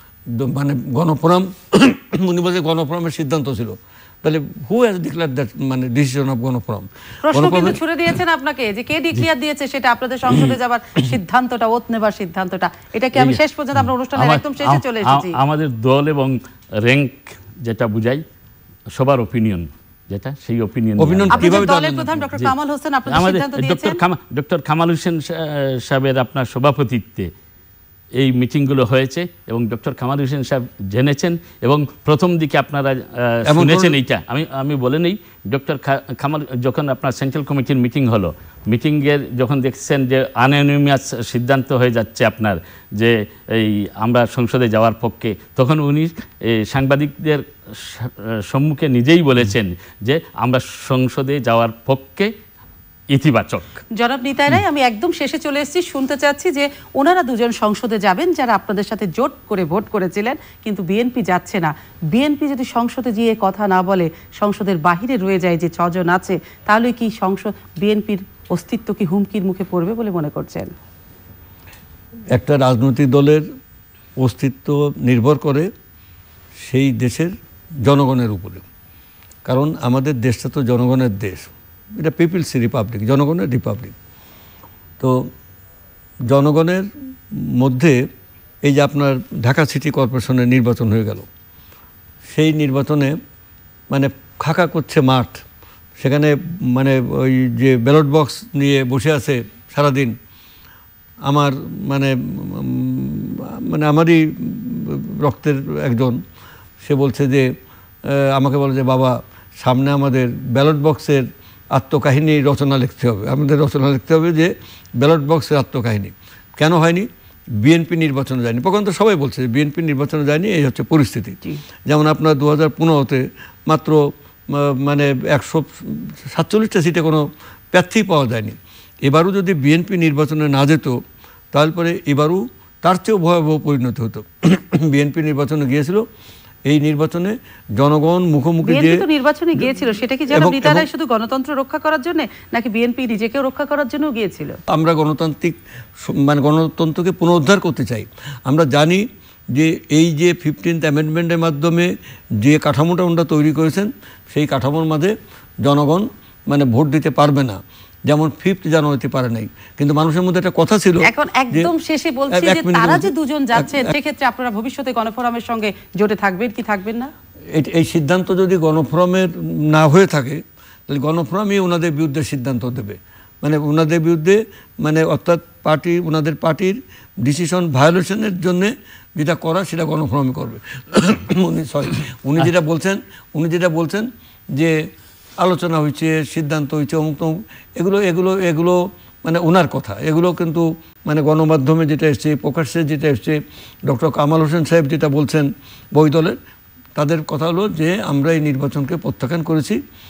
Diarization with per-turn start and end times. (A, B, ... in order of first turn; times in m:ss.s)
0:00.3-0:07.8 A
0:07.2-0:15.4 B
0:13.1-0:18.2 C
0:18.9-0:21.7 C
0:21.0-0:22.3 A
0:21.3-0:24.0 B
0:23.1-0:27.3 C
0:28.2-0:52.3 C
0:33.4-0:34.0 A
0:53.1-0:53.8 C
0:54.0-1:10.7 B
1:12.3-1:13.4 A
1:14.2-1:15.7 A
1:16.6-1:18.6 A
1:19.4-1:23.9 A
1:25.0-1:25.3 A
1:26.3-1:28.0 A
1:28.6-1:31.3 A
1:32.3-1:33.2 A
1:33.9-1:35.4 A
1:36.0-1:40.2 A
1:41.2-1:46.2 A
1:46.8-2:11.0 A
2:11.5-2:16.0 A
2:16.7-2:19.0 A
2:18.6-2:24.6 B
2:19.6-2:20.9 A
2:24.7-2:41.7 A
2:41.0-2:47.1 B
2:42.3-2:43.9 A
2:47.5-3:04.8 A
3:05.4-3:16.4 A
3:17.0-3:19.8 A